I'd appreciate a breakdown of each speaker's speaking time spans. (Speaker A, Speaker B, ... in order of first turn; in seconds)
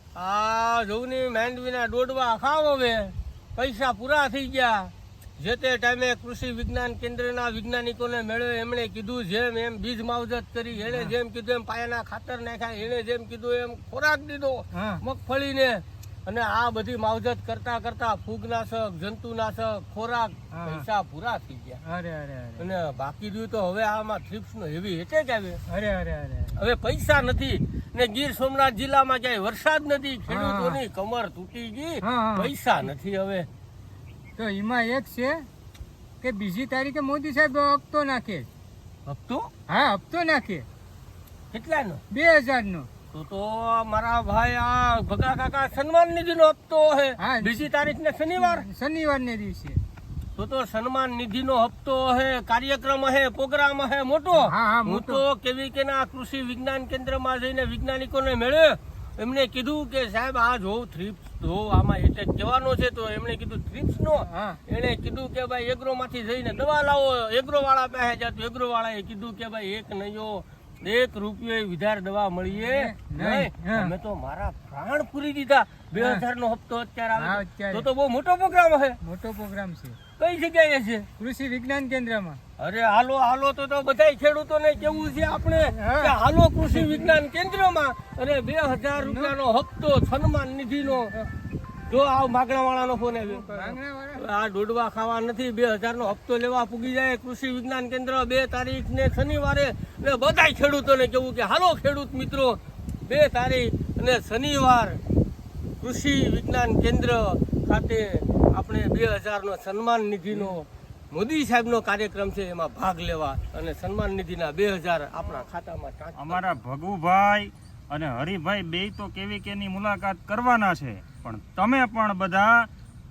Speaker A: 0.1-21.8, 22.6-25.6, 26.6-33.5, 39.1-39.5, 41.5-42.0, 43.1-48.6, 50.4-79.0, 80.2-81.0, 82.6-91.1, 91.9-105.0, 105.8-116.6
Speaker B: 10.8-11.1, 14.7-15.0, 20.5-20.8, 21.9-22.6, 25.7-26.6, 30.3-30.8, 32.0-32.5, 34.4-35.5, 36.2-38.5, 39.7-40.6, 42.1-42.9, 47.2-47.6, 48.4-49.8, 54.4-55.2, 64.2-64.6, 72.5-73.9, 76.0-76.2, 77.2-77.9, 79.0-80.0, 81.2-82.4, 85.6-86.1, 86.7-87.1, 89.0-89.3, 93.2-94.3
Speaker C: 116.2-122.7